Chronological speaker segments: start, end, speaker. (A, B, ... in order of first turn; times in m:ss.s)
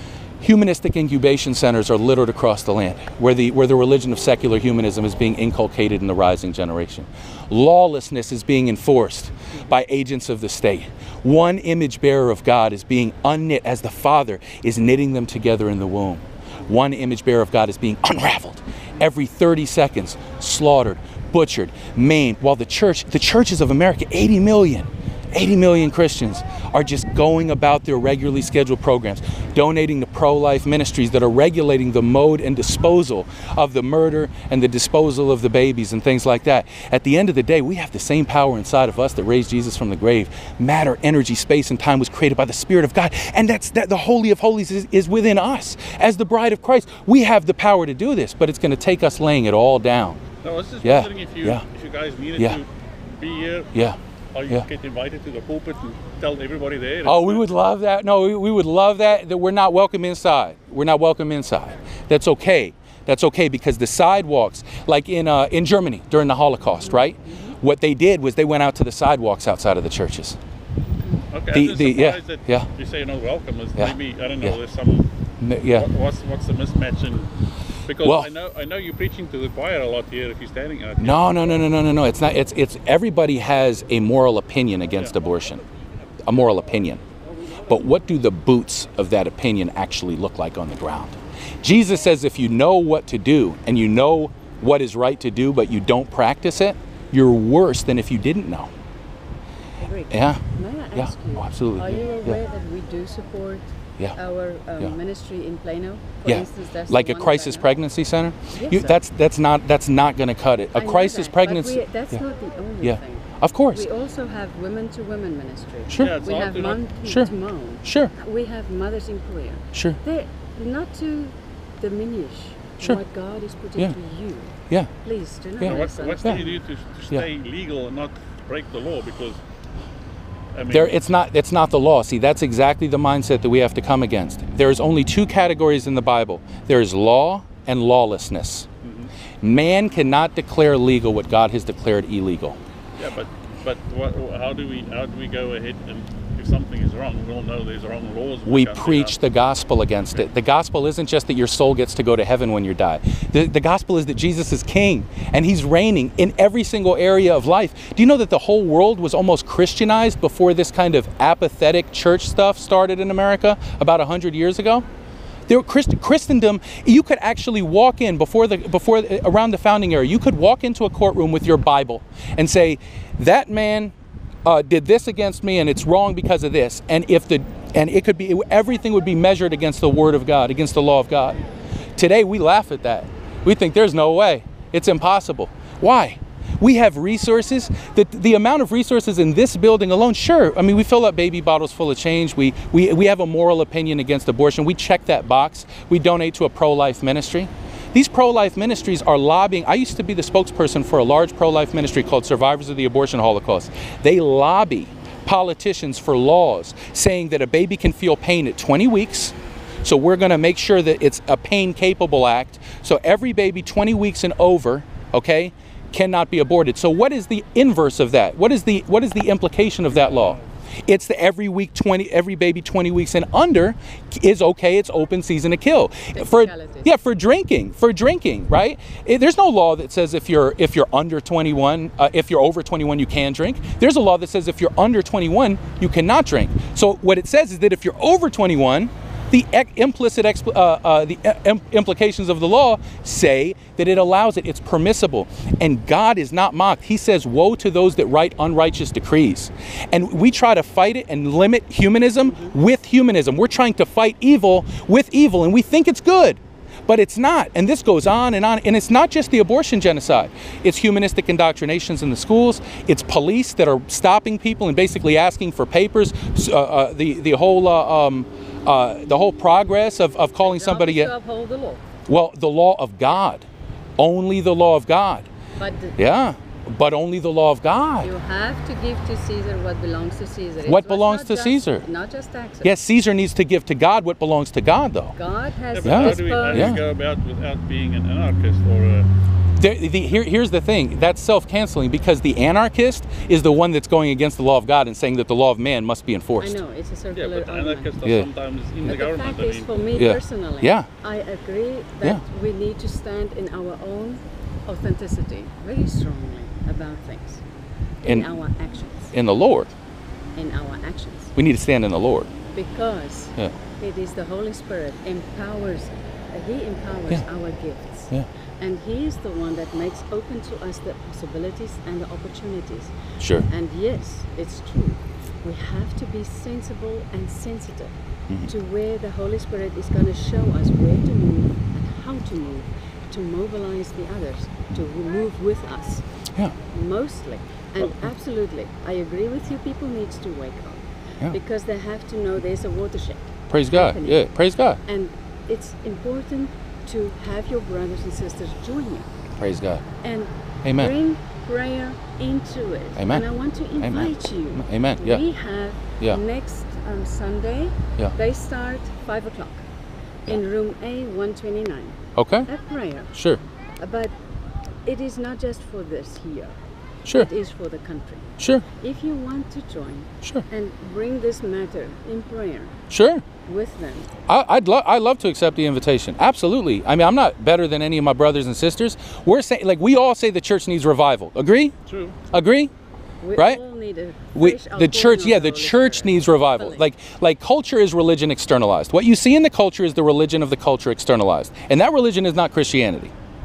0:00.4-0:50.2 A
0:50.4-0:53.7 B
0:50.8-0:51.6 A
0:54.3-0:57.4 B
0:57.0-1:10.4 A
1:06.8-1:07.6 C
1:11.3-1:15.1 B
1:11.5-1:12.7 A
1:13.8-1:14.6 A
1:15.4-1:15.9 A
1:15.7-1:17.3 B
1:17.9-1:21.3 B
1:18.0-1:18.3 A
1:21.0-1:25.6 A
1:26.3-1:27.0 A
1:27.7-1:38.7 A
1:39.8-1:43.6 C
1:40.1-1:40.4 A
1:41.0-1:42.4 A
1:44.2-1:47.7 C
1:46.3-1:52.2 A
1:48.5-1:49.0 C
1:50.8-2:06.6 C
1:52.8-1:53.8 A
1:55.9-1:56.1 A
1:56.0-1:56.8 B
1:57.8-1:58.1 A
2:05.6-2:06.4 A
2:05.6-2:09.4 B
2:10.5-2:11.0 B
2:10.7-2:18.7 A
2:18.8-2:19.1 B
2:19.4-2:22.6 A
2:23.0-2:29.2 B
2:28.5-2:44.8 A
2:45.5-2:53.9 A
2:54.4-3:01.4 A
3:02.0-4:31.1 A
3:39.9-3:40.5 B
3:46.1-3:46.9 C
4:12.2-4:12.6 C
4:30.4-4:31.8 C
4:32.1-4:33.5 A
4:34.0-4:35.3 A
4:35.6-4:36.0 C
4:36.0-4:38.1 A
4:38.0-4:42.8 C
4:40.7-4:41.8 A
4:42.6-4:45.2 A
4:45.2-4:46.8 C
4:45.7-4:49.1 B
4:45.8-4:46.8 A
4:49.6-4:56.6 A
4:56.4-4:58.0 C
4:57.1-5:00.0 B
4:58.8-5:07.4 C
5:00.0-5:00.9 A
5:08.0-5:08.3 A
5:08.0-5:09.1 C
5:09.1-5:09.7 A
5:10.4-5:11.3 C
5:11.4-5:12.3 A
5:12.5-5:28.0 C
5:23.2-5:23.5 A
5:28.5-5:36.0 C
5:36.7-5:44.3 C
5:43.5-5:44.8 A
5:44.8-5:49.1 C
5:49.4-5:49.8 A
5:50.0-5:59.7 C
5:50.6-5:50.9 A
5:53.0-5:53.3 A
5:53.8-5:55.2 A
6:00.3-6:03.1 C
6:02.2-6:02.5 A
6:03.1-6:03.4 A
6:03.8-6:04.1 C
6:04.8-6:06.6 C
6:07.1-6:12.8 C
6:08.4-6:08.6 A
6:12.9-6:13.2 A
6:13.5-6:14.1 C
6:14.3-6:21.7 A
6:21.9-6:22.2 B
6:22.3-6:22.7 A
6:23.2-6:26.8 C
6:23.4-6:23.6 A
6:24.4-6:33.1 A